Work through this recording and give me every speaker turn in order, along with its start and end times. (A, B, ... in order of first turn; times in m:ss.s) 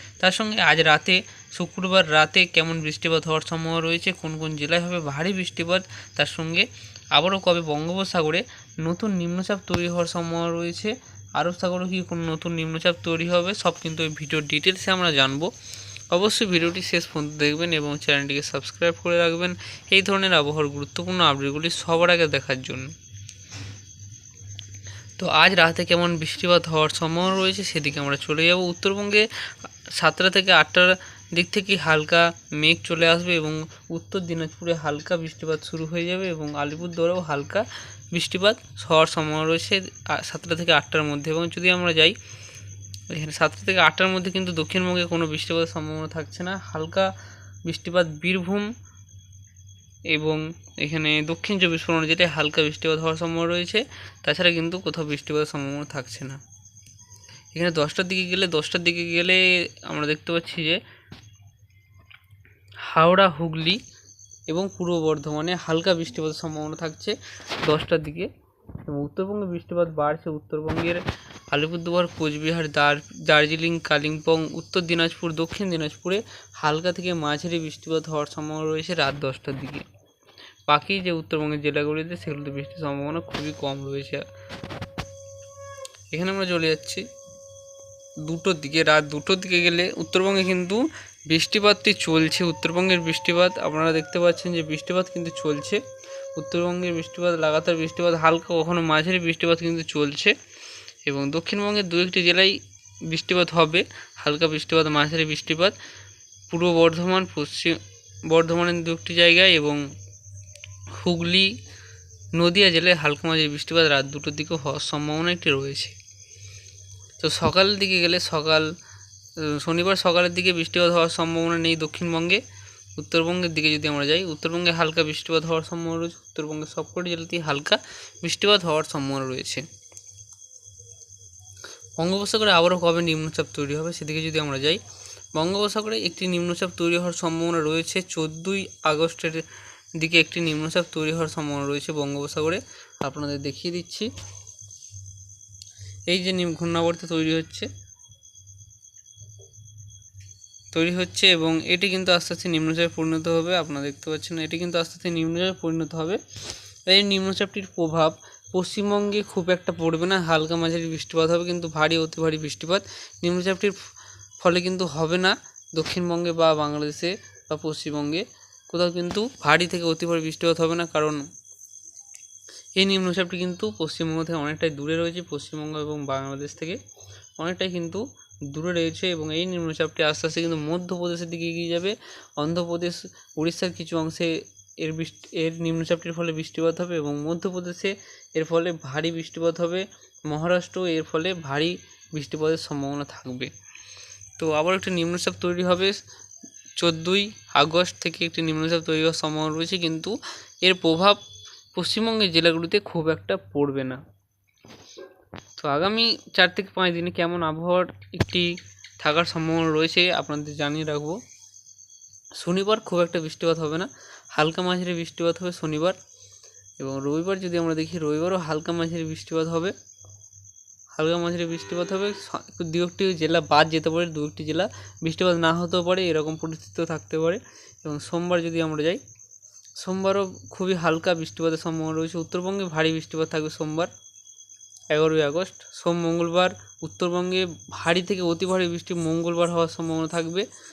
0:00.2-0:15.5 A
0:16.1-0:22.9 A
0:25.2-0:42.2 A
0:43.1-0:47.1 A
0:47.7-0:48.7 A
0:50.1-0:56.4 A
0:57.5-1:00.8 A
1:02.9-1:03.8 A
1:04.5-1:08.3 A
1:08.9-1:19.9 A
1:20.7-1:24.2 A
1:26.1-1:27.0 A
1:28.2-1:35.8 A
1:36.4-1:40.3 A
1:41.1-1:45.8 A
1:46.5-1:49.8 A
1:51.0-1:51.5 A
1:52.4-1:56.0 A
1:57.2-1:58.7 A
1:59.4-2:02.4 A
2:03.0-2:09.6 A
2:12.0-2:14.8 A
2:15.4-2:19.5 A
2:20.0-2:24.1 A
2:26.1-2:27.7 A
2:30.7-2:36.2 A
2:36.9-2:43.8 A
2:44.4-2:51.2 A
2:52.8-2:56.8 A
2:57.4-3:13.5 A
3:14.4-3:16.0 A
3:16.8-3:21.2 A
3:21.8-3:24.0 A
3:25.6-3:31.2 A
3:32.4-3:36.0 A
3:36.8-3:39.7 A
3:41.0-3:49.0 A
3:49.8-3:53.9 A
3:54.9-4:00.5 A